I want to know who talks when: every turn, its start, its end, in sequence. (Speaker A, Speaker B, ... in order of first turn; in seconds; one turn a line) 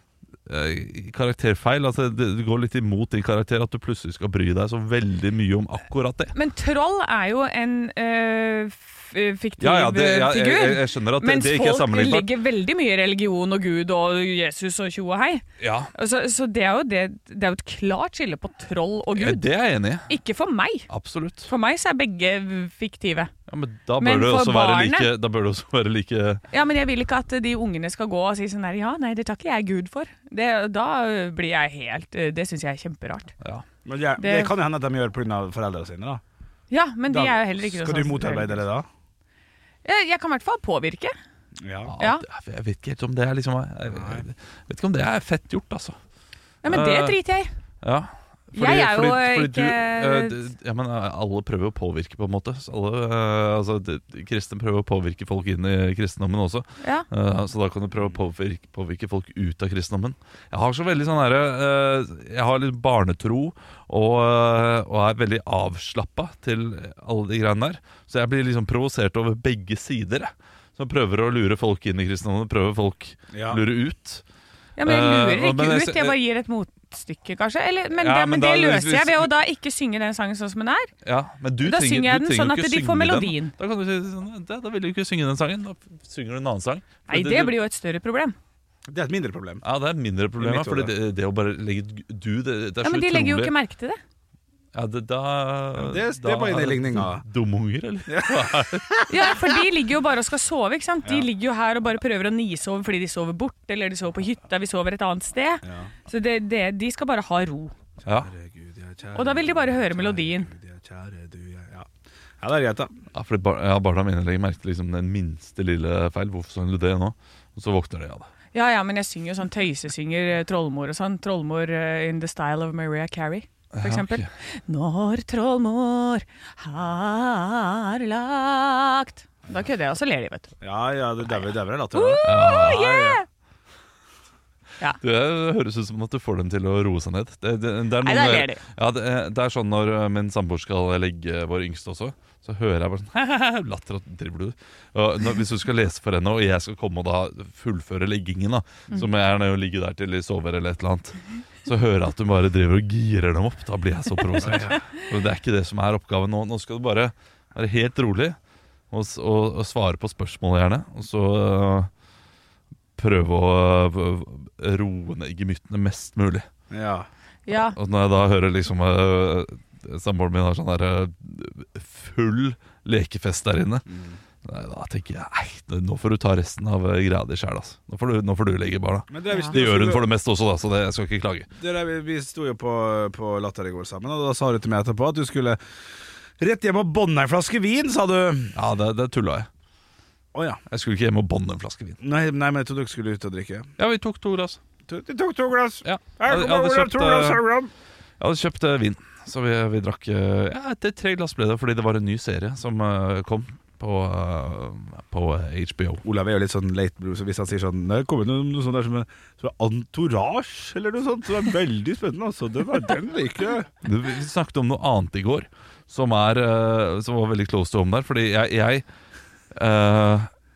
Speaker A: 0.5-6.3
Speaker B: 6.3-19.5
Speaker A: 9.6-12.3
Speaker A: 15.6-15.9
Speaker A: 19.1-20.1
Speaker B: 20.1-20.9
Speaker A: 20.9-21.5
Speaker B: 21.4-23.3
Speaker A: 23.5-26.4
Speaker B: 24.0-25.1
Speaker B: 26.5-33.3
Speaker C: 33.9-36.2
Speaker B: 34.2-34.5
Speaker B: 36.7-38.6
Speaker C: 37.1-38.9
Speaker B: 39.8-41.1
Speaker C: 41.6-41.9
Speaker A: 41.9-46.0
Speaker C: 43.9-44.3
Speaker B: 46.6-47.5
Speaker A: 46.7-47.2
Speaker A: 47.8-74.2
Speaker B: 48.5-50.5
Speaker B: 56.8-57.1
Speaker C: 73.3-73.6
Speaker B: 74.8-80.9
Speaker A: 74.8-76.2
Speaker A: 78.0-79.3
Speaker A: 81.0-87.5
Speaker B: 81.6-83.5
Speaker B: 87.1-88.4
Speaker C: 88.9-89.7
Speaker A: 89.6-93.5
Speaker C: 90.4-90.9
Speaker B: 92.8-94.0
Speaker A: 94.7-98.9
Speaker C: 95.8-97.2
Speaker C: 98.1-99.4
Speaker B: 99.1-107.7
Speaker C: 105.6-105.9
Speaker C: 108.0-111.9
Speaker B: 109.2-110.5
Speaker C: 112.4-112.9
Speaker A: 113.1-118.3
Speaker B: 118.5-130.5
Speaker A: 123.7-124.3
Speaker C: 130.6-133.2
Speaker B: 131.9-133.2
Speaker A: 132.2-132.9
Speaker A: 135.0-158.4
Speaker B: 138.0-138.6
Speaker C: 154.4-154.8
Speaker A: 158.9-161.9
Speaker A: 163.0-166.5
Speaker C: 166.7-167.1
Speaker B: 167.5-167.8
Speaker A: 167.5-173.8
Speaker C: 173.9-174.2
Speaker A: 174.4-181.5
Speaker C: 179.1-180.1
Speaker C: 181.6-185.6
Speaker C: 186.4-188.6
Speaker A: 188.6-189.5
Speaker C: 190.3-190.6
Speaker A: 190.7-192.0
Speaker C: 192.0-193.7
Speaker A: 193.8-194.6
Speaker C: 194.9-197.7
Speaker A: 195.8-197.4
Speaker A: 198.2-206.0
Speaker C: 206.0-213.7
Speaker A: 213.8-218.8
Speaker A: 219.5-220.3